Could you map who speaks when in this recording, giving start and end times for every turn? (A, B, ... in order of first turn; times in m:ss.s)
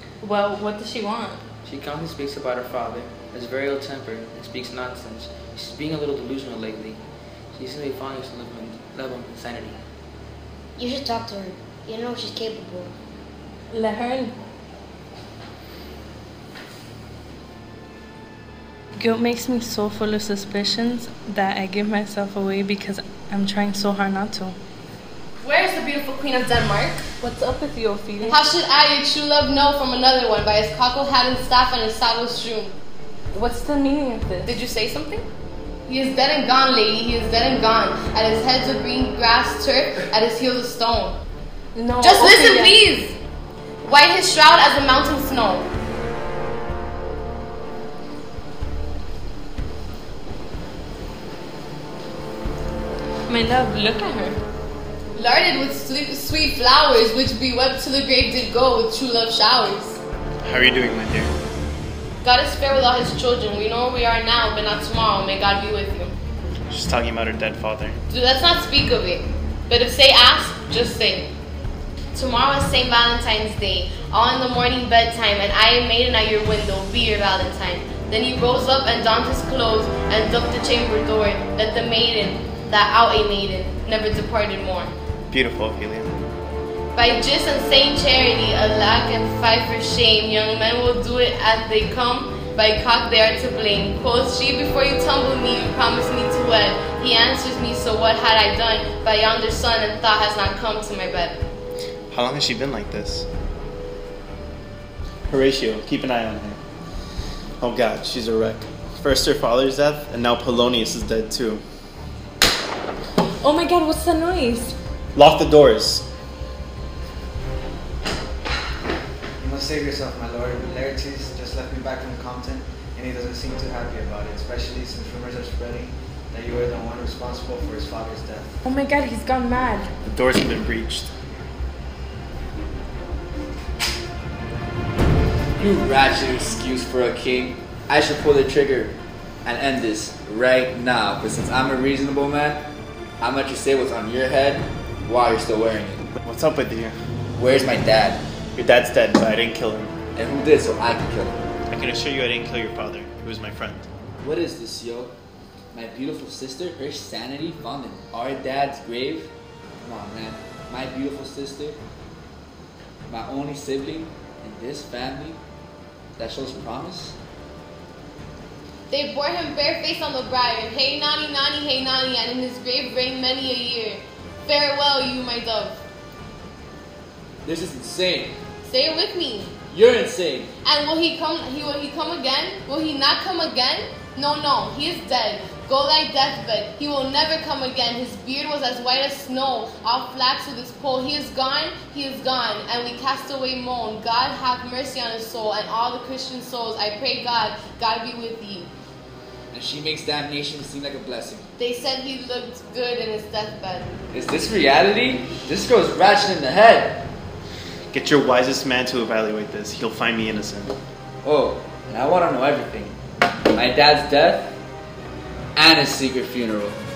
0:00.2-0:01.4 A
0:01.6-0:09.8 B
0:10.8-0:12.9 C
0:13.7-0:14.3 A
0:19.0-0:24.6 A
0:25.4-0:27.1 D
0:27.2-0:28.4 A
0:28.2-0:32.8 D
0:33.3-0:34.6 A
0:34.4-0:35.3 D
0:35.9-0:41.2 D
0:41.8-0:42.8 A
0:42.0-0:43.2 D
0:43.8-0:45.7 D
0:53.4-0:54.3 D
0:55.1-1:00.0 D
1:00.4-1:01.3 E
1:02.2-1:06.1 D
1:06.7-1:08.0 E
1:08.1-1:11.3 D
1:12.1-1:24.9 D
1:25.3-1:26.2 E
1:27.0-1:41.4 D
1:42.1-1:43.3 E
1:45.3-1:46.6 E
1:47.6-1:51.6 E
1:53.4-1:54.7 A
1:55.2-1:56.1 E
1:59.4-2:08.6 F
2:08.6-2:09.9 A
2:10.0-2:11.1 E
2:15.6-2:22.7 G
2:23.2-2:26.0 G
2:26.2-2:27.0 E
2:27.4-2:28.2 G
2:28.6-2:30.0 E
2:30.2-2:31.4 G
2:31.7-2:33.9 E
2:34.2-2:35.1 G
2:35.7-2:41.8 G
2:43.1-2:45.4 G
2:46.2-2:47.2 G
2:48.9-2:55.8 D
2:57.4-2:58.4 G
2:58.6-2:59.5 D
2:59.7-3:00.5 G
3:00.6-3:18.7 D
3:19.5-3:21.5 G
3:21.6-3:23.9 D
3:24.1-3:27.1 G
3:27.9-3:30.8 E
3:31.2-3:33.0 G
3:33.5-3:34.6 G
3:35.6-3:36.8 G